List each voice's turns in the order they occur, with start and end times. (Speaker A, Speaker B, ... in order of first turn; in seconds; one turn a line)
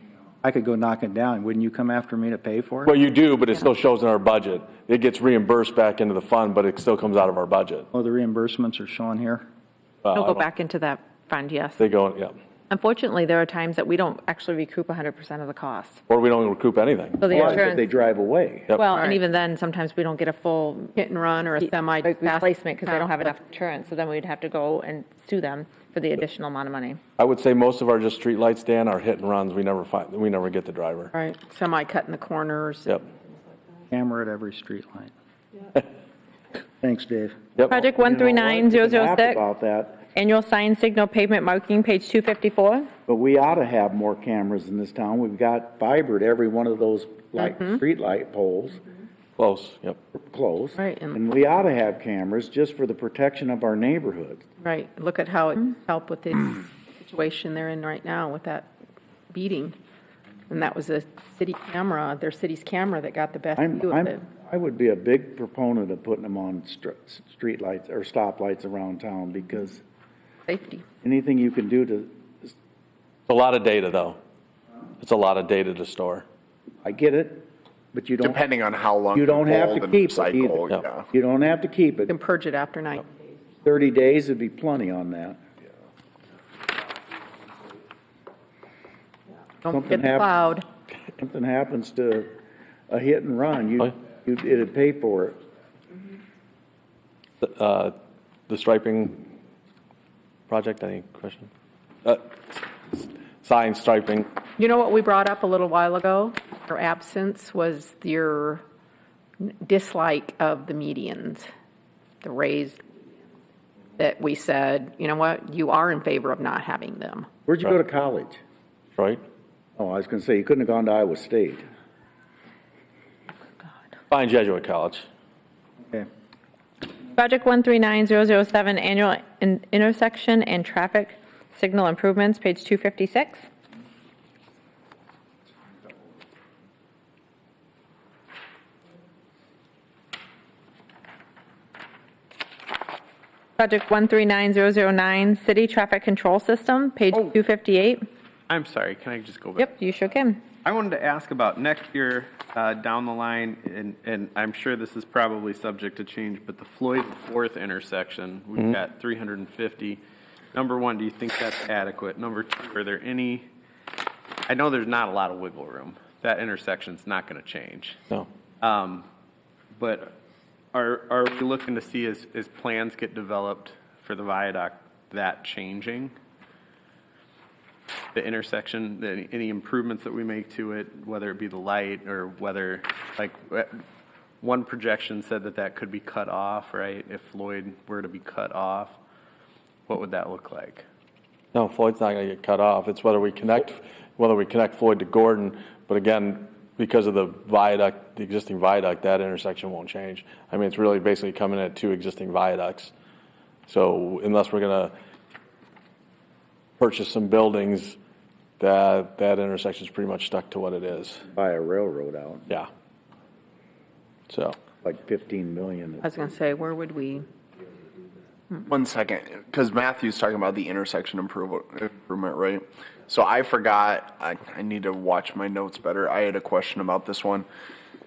Speaker A: 0.4-2.9
Speaker B: 2.9-7.8
Speaker A: 7.9-9.4
Speaker B: 10.0-10.5
Speaker C: 10.1-11.8
Speaker B: 11.8-12.3
Speaker C: 12.7-16.0
Speaker B: 16.1-17.6
Speaker C: 17.2-17.8
Speaker D: 17.2-18.8
Speaker C: 18.7-21.0
Speaker E: 18.9-19.2
Speaker E: 21.0-23.4
Speaker C: 21.6-27.0
Speaker B: 27.2-31.1
Speaker E: 31.1-33.0
Speaker A: 33.9-35.1
Speaker A: 36.8-37.4
Speaker B: 37.5-37.8
Speaker C: 37.6-39.4
Speaker D: 37.9-40.0
Speaker C: 40.1-42.9
Speaker D: 43.1-48.8
Speaker B: 49.4-50.0
Speaker D: 50.1-54.4
Speaker E: 50.8-51.2
Speaker E: 54.6-58.7
Speaker E: 59.3-59.7
Speaker E: 60.5-64.2
Speaker D: 63.6-69.8
Speaker E: 70.5-70.9
Speaker D: 71.0-72.5
Speaker B: 73.3-74.2
Speaker B: 75.0-76.2
Speaker D: 76.8-78.4
Speaker F: 78.2-81.0
Speaker D: 79.1-82.1
Speaker E: 82.1-83.1
Speaker D: 83.6-85.4
Speaker E: 89.6-90.6
Speaker D: 89.7-90.3
Speaker D: 91.2-92.4
Speaker D: 92.9-95.4
Speaker B: 97.4-97.9
Speaker B: 98.5-99.3
Speaker B: 100.5-101.5
Speaker B: 102.0-104.3
Speaker E: 104.6-108.6
Speaker E: 109.4-111.5
Speaker E: 112.2-112.8
Speaker E: 114.0-117.3
Speaker D: 117.5-118.4
Speaker B: 119.0-119.2
Speaker D: 119.8-121.6
Speaker B: 124.1-125.0
Speaker C: 127.2-133.4
Speaker C: 143.6-148.0
Speaker G: 148.5-149.7
Speaker C: 149.6-150.4
Speaker G: 150.6-160.0
Speaker G: 160.5-163.5
Speaker G: 164.5-168.0
Speaker G: 168.6-169.1
Speaker G: 169.8-170.2
Speaker G: 170.7-176.2
Speaker G: 178.2-183.8
Speaker G: 184.4-189.0
Speaker G: 189.9-190.9
Speaker B: 191.5-202.9
Speaker B: 203.7-204.9
Speaker B: 206.8-208.0
Speaker B: 208.6-211.2
Speaker D: 211.3-212.5
Speaker B: 214.3-214.6
Speaker D: 214.8-216.1
Speaker E: 216.0-217.3
Speaker F: 218.7-227.5